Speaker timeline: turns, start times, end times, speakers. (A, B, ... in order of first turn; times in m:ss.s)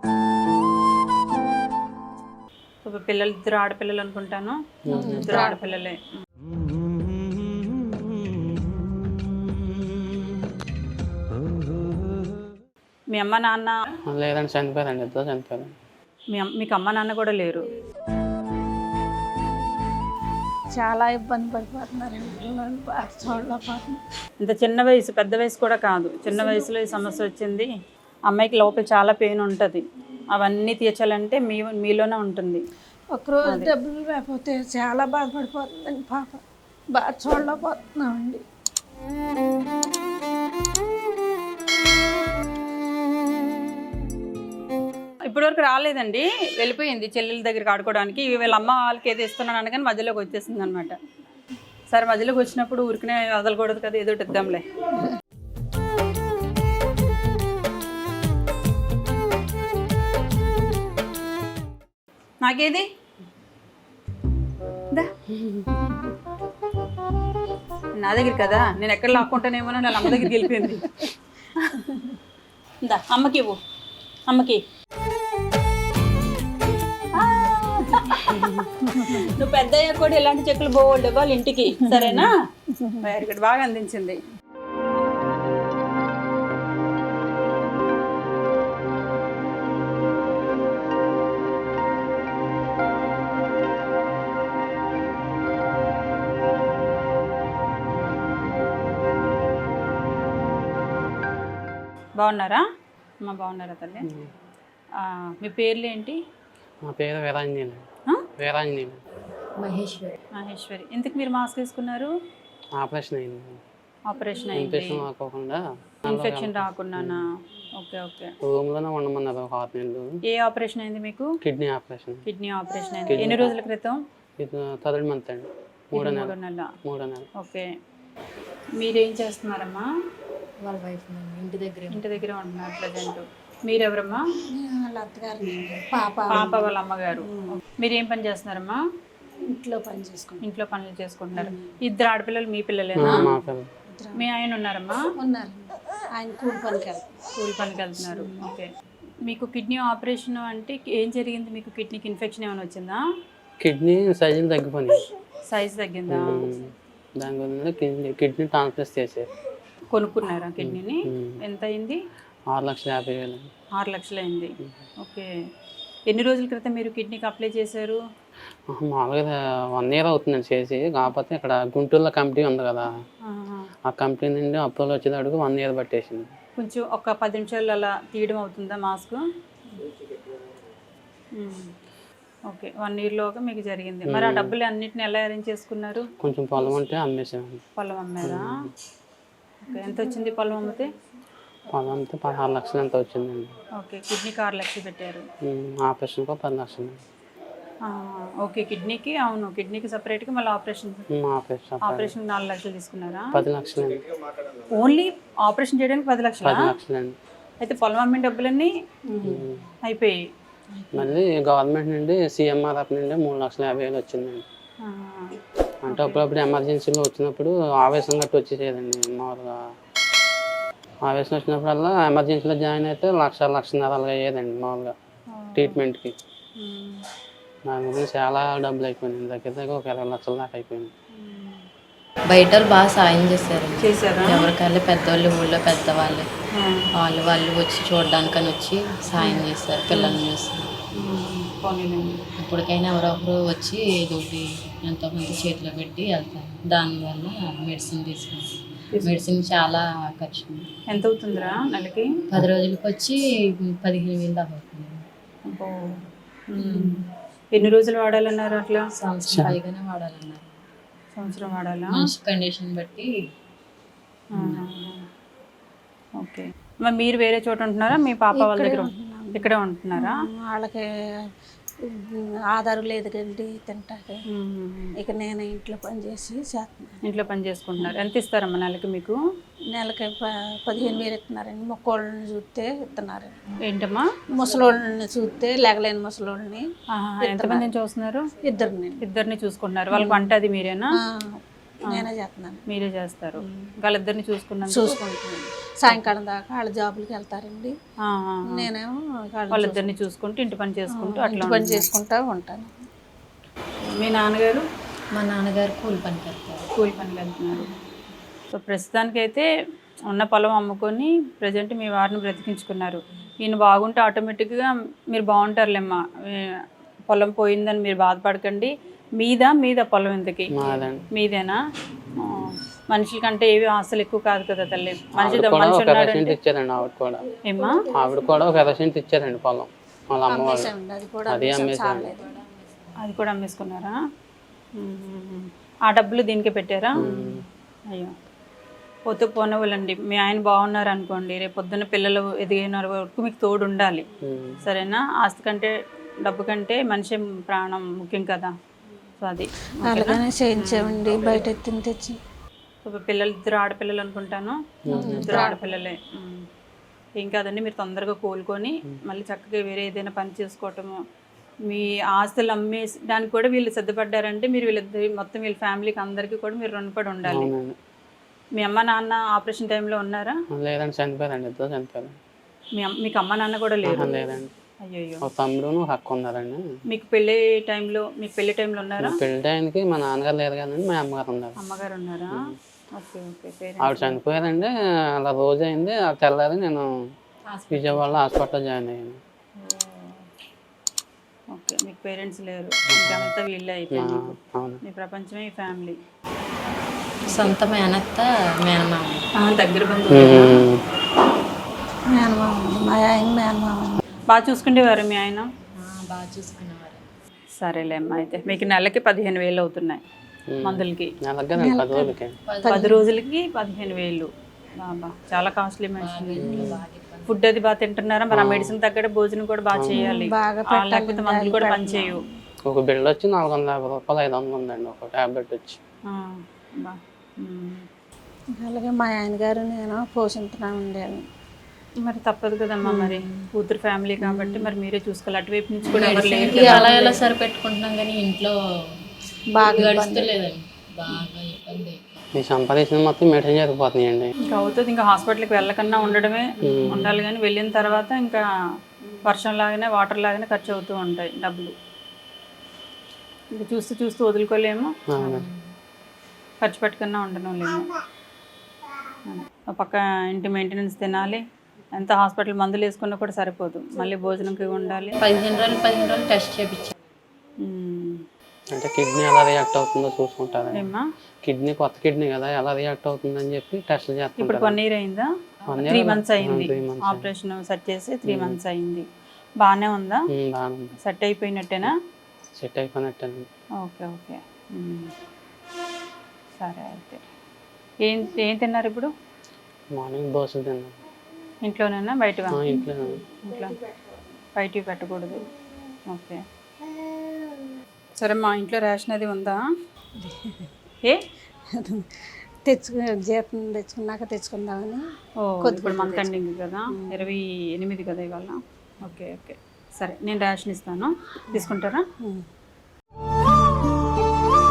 0:02.8-0:06.0 A
0:04.8-0:05.4 B
0:04.9-0:05.6 C
0:13.1-0:13.8 A
0:14.1-0:15.7 B
0:16.3-0:17.7 A
0:20.8-0:24.0 C
0:24.4-0:27.7 A
0:26.3-0:26.7 C
0:28.3-0:29.8 A
0:30.3-0:32.6 A
0:33.1-0:36.4 C
0:33.4-0:33.7 A
0:36.9-0:38.4 C
0:45.3-0:51.0 A
0:51.9-0:54.6 A
1:02.4-1:02.8 A
1:05.3-1:05.7 B
1:08.0-1:11.1 A
1:10.1-1:11.1 C
1:11.8-1:12.2 C
1:12.8-1:13.6 A
1:14.3-1:14.6 A
1:17.1-1:18.3 A
1:18.6-1:19.3 C
1:18.8-1:22.3 A
1:21.8-1:23.0 C
1:23.0-1:24.2 A
1:42.2-1:42.6 A
1:43.2-1:44.1 A
1:45.0-1:46.2 A
1:46.8-1:47.8 B
1:48.4-1:49.0 B
1:49.6-1:50.2 D
1:50.4-1:52.1 A
1:52.8-1:53.6 B
1:54.1-1:55.0 A
1:54.5-1:57.2 B
1:56.0-1:58.3 A
1:58.4-2:00.2 B
2:00.3-2:01.3 A
2:01.4-2:02.2 B
2:02.2-2:04.0 A
2:03.1-2:03.6 B
2:04.4-2:07.3 B
2:05.9-2:06.7 A
2:07.4-2:07.6 A
2:08.8-2:09.8 A
2:10.6-2:12.2 D
2:11.9-2:14.2 A
2:14.5-2:17.6 C
2:16.3-2:18.8 A
2:19.5-2:20.4 C
2:20.4-2:23.3 A
2:21.4-2:21.7 C
2:23.0-2:23.7 B
2:24.0-2:24.3 C
2:24.2-2:25.0 A
2:25.2-2:27.2 C
2:27.3-2:28.6 A
2:28.0-2:28.3 C
2:29.2-2:33.0 A
2:33.6-2:35.0 B
2:35.5-2:36.5 A
2:36.1-2:39.3 B
2:39.9-2:42.0 A
2:40.6-2:41.4 B
2:42.5-2:43.5 B
2:43.7-2:45.3 A
2:46.1-2:48.0 A
2:48.7-2:52.9 B
2:53.2-2:53.7 A
2:53.8-2:56.3 B
2:56.6-2:59.2 A
3:01.4-3:01.7 A
3:02.5-3:06.0 A
3:04.0-3:04.5 B
3:06.2-3:07.6 B
3:07.8-3:08.5 A
3:08.2-3:08.7 B
3:09.6-3:10.9 A
3:11.7-3:13.5 B
3:13.8-3:15.2 A
3:15.4-3:17.0 B
3:17.9-3:21.0 A
3:21.1-3:22.2 B
3:21.8-3:23.3 A
3:23.3-3:24.0 B
3:24.7-3:26.7 A
3:26.4-3:27.2 B
3:27.6-3:30.2 A
3:29.2-3:29.6 B
3:30.8-3:31.1 D
3:30.9-3:34.4 B
3:34.8-3:35.4 A
3:35.8-3:39.6 B
3:35.9-3:36.2 A
3:41.0-3:44.9 B
3:45.3-3:45.8 A
3:45.5-3:46.2 B
3:46.6-3:47.0 A
3:47.6-3:50.9 B
3:51.1-3:51.7 A
3:52.3-3:56.3 D
3:53.8-3:54.5 A
3:56.5-3:56.9 A
3:56.9-4:00.7 D
3:59.2-4:00.2 A
4:00.9-4:02.2 A
4:02.4-4:10.7 D
4:10.9-4:12.1 A
4:12.3-4:15.0 D
4:15.4-4:16.0 A
4:16.5-4:17.0 A
4:17.5-4:18.8 A
4:19.0-4:20.6 D
4:19.3-4:19.6 B
4:21.1-4:22.0 A
4:21.9-4:23.1 D
4:24.3-4:24.6 D
4:24.4-4:25.0 A
4:26.2-4:30.2 A
4:28.3-4:30.8 C
4:31.8-4:34.2 C
4:34.3-4:35.0 A
4:35.0-4:37.0 C
4:37.0-4:39.2 A
4:39.7-4:43.4 C
4:43.6-4:44.1 A
4:44.3-4:46.6 C
4:46.9-4:48.3 A
4:47.2-4:47.7 C
4:48.4-4:49.0 C
4:49.0-4:50.9 A
4:49.9-4:50.3 C
4:51.0-4:52.6 C
4:52.7-4:55.2 A
4:54.7-4:57.7 C
4:58.0-4:58.7 A
4:58.5-4:59.9 C
4:59.5-5:01.9 A
5:00.9-5:02.7 C
5:03.8-5:04.6 A
5:05.1-5:06.7 D
5:06.7-5:07.7 A
5:08.5-5:09.5 A
5:10.1-5:16.5 A
5:17.1-5:20.5 A
5:20.5-5:21.0 B
5:20.6-5:20.9 D
5:21.1-5:21.6 A
5:22.2-5:26.4 A
5:25.1-5:27.2 B
5:27.4-5:27.8 A
5:27.5-5:28.2 C
5:27.9-5:30.7 B
5:30.3-5:32.3 C
5:31.3-5:32.1 B
5:32.1-5:33.0 D
5:33.0-5:34.0 A
5:34.8-5:37.1 A
5:36.9-5:37.4 B
5:39.1-5:44.0 A
5:44.2-5:44.6 B
5:44.6-5:45.7 A
5:46.2-5:48.5 A
5:49.2-5:51.0 A
5:49.8-5:52.2 C
5:52.8-5:56.4 A
5:54.8-5:55.4 B
5:54.9-5:55.6 C
5:57.2-6:01.0 A
6:01.7-6:07.5 A
6:07.2-6:07.8 B
6:08.6-6:10.4 A
6:10.5-6:12.2 B
6:12.8-6:14.1 A
6:13.8-6:14.5 B
6:14.8-6:15.2 A
6:15.2-6:16.6 B
6:16.9-6:19.2 A
6:19.0-6:21.6 B
6:21.6-6:22.4 A
6:23.0-6:24.2 A
6:23.8-6:26.9 B
6:27.5-6:28.2 D
6:27.7-6:29.2 B
6:29.6-6:30.2 A
6:31.5-6:36.0 A
6:32.8-6:33.3 B
6:33.9-6:34.8 B
6:37.2-6:39.2 D
6:39.4-6:40.6 A
6:40.1-6:40.8 B
6:42.1-6:44.0 C
6:44.3-6:45.4 A
6:45.8-6:47.0 D
6:47.6-6:50.0 A
6:50.5-6:52.4 B
6:50.6-6:51.1 A
6:51.5-6:53.0 C
6:52.5-6:53.0 D
6:52.6-6:54.3 A
6:54.8-6:56.7 A
6:56.0-6:57.4 D
6:56.4-6:56.8 B
6:56.5-6:56.8 C
6:57.3-7:02.2 A
6:58.3-6:58.8 B
6:59.7-7:00.1 B
6:59.9-7:02.3 C
7:02.6-7:05.8 B
7:06.1-7:07.8 A
7:08.6-7:11.2 C
7:12.0-7:17.0 A
7:12.8-7:13.5 C
7:14.2-7:14.7 C
7:15.9-7:18.5 D
7:15.9-7:17.2 C
7:19.5-7:20.3 C
7:19.6-7:22.2 D
7:22.4-7:24.3 B
7:24.4-7:28.4 A
7:26.6-7:27.1 B
7:26.6-7:27.2 D
7:29.2-7:31.7 A
7:33.5-7:34.9 A
7:35.1-7:35.5 B
7:35.2-7:35.6 D
7:36.6-7:37.9 A
7:39.3-7:41.4 A
7:41.9-7:45.2 A
7:45.2-7:46.9 D
7:47.6-7:48.2 A
7:48.7-7:50.9 B
7:50.7-7:51.0 A
7:51.4-7:54.8 B
7:54.4-7:55.3 A
7:55.6-7:56.1 D
7:55.7-7:57.3 B
7:55.8-7:59.0 A
7:58.2-7:58.6 B
7:59.6-8:00.2 A
8:00.3-8:00.9 B
8:01.0-8:01.9 A
8:02.6-8:03.5 B
8:03.8-8:05.1 A
8:06.6-8:07.2 A
8:08.0-8:09.1 A
8:09.9-8:11.0 B
8:11.6-8:12.6 A
8:12.5-8:13.2 B
8:13.3-8:14.2 C
8:13.4-8:13.7 A
8:14.6-8:15.5 A
8:16.1-8:16.4 A
8:18.2-8:19.6 A
8:20.2-8:20.7 C
8:21.8-8:25.0 C
8:25.4-8:32.0 A
8:25.6-8:26.4 C
8:26.9-8:27.3 C
8:31.5-8:32.4 C